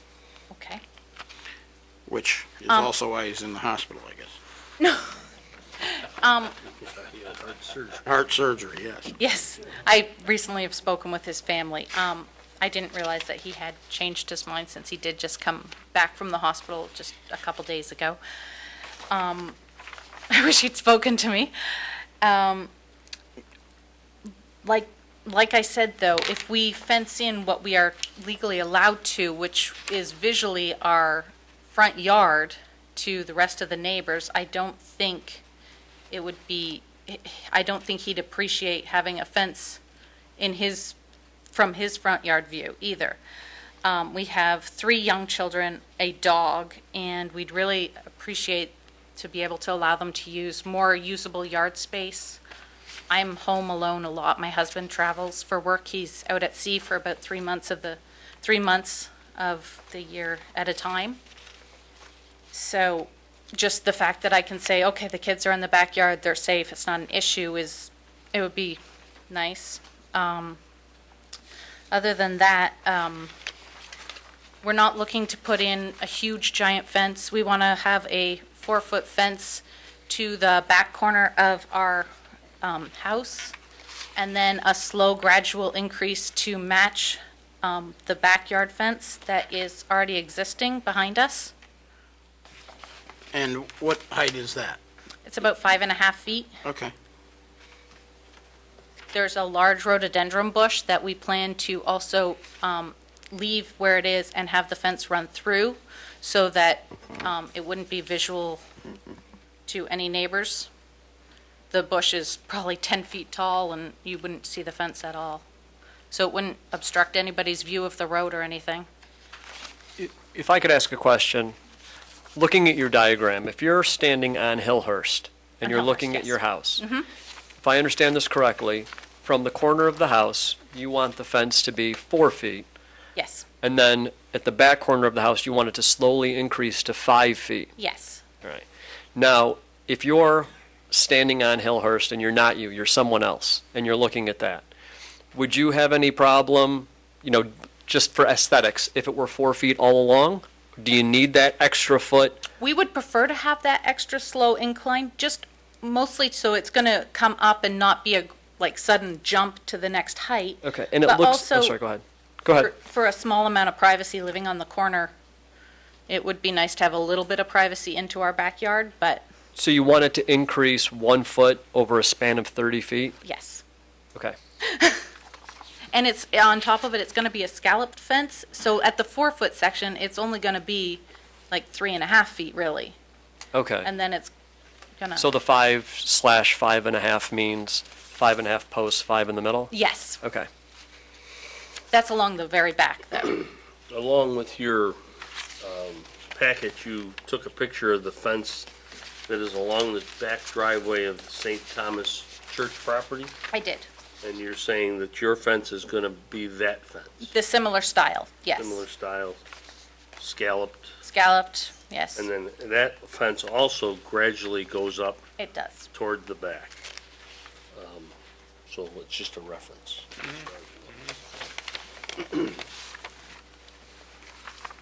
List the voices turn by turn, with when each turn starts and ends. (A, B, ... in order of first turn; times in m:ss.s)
0:00.5-0:00.8 A
0:02.0-0:04.4 B
0:04.8-0:05.2 A
0:05.8-0:06.6 A
0:06.8-0:08.0 C
0:08.0-0:09.2 B
0:09.2-0:18.2 A
0:19.1-0:19.6 A
0:20.3-0:21.5 A
0:22.2-0:22.7 A
0:24.6-0:35.4 A
0:36.1-0:39.8 A
0:40.4-0:41.0 A
0:41.5-0:43.2 A
0:43.8-0:52.4 A
0:53.1-1:01.2 A
1:02.5-1:08.8 A
1:09.3-1:10.6 A
1:11.9-1:13.3 A
1:14.6-1:22.1 A
1:22.6-1:23.5 A
1:24.2-1:31.5 A
1:33.3-1:34.8 B
1:35.2-1:36.5 A
1:36.6-1:36.9 B
1:39.1-1:48.6 A
1:49.7-1:50.7 A
1:51.7-1:55.4 A
1:56.1-1:58.8 A
2:00.0-2:01.5 D
2:02.4-2:06.8 D
2:05.6-2:07.1 A
2:07.6-2:12.6 D
2:13.1-2:13.5 A
2:13.6-2:17.7 D
2:17.8-2:18.2 A
2:18.4-2:24.7 D
2:25.3-2:32.4 D
2:32.6-2:41.8 A
2:40.6-2:42.7 D
2:42.6-2:45.1 A
2:46.1-2:49.2 A
2:49.6-2:53.1 D
2:53.2-2:53.6 A
2:54.6-2:55.0 A
2:55.9-3:03.0 A
3:03.5-3:03.9 D
3:03.8-3:04.3 A
3:05.0-3:05.2 A
3:05.1-3:10.5 D
3:09.7-3:10.2 A
3:11.9-3:13.5 A
3:13.9-3:15.0 C
3:15.6-3:18.7 C
3:19.3-3:23.3 C
3:23.5-3:23.9 A
3:24.2-3:27.3 C
3:27.2-3:28.8 A
3:28.6-3:29.4 C
3:30.2-3:31.0 C
3:31.0-3:32.3 A
3:32.2-3:35.2 C
3:35.4-3:35.9 A
3:35.9-3:36.8 C
3:37.7-3:38.1 C
3:38.7-3:40.7 C
3:42.2-3:42.5 C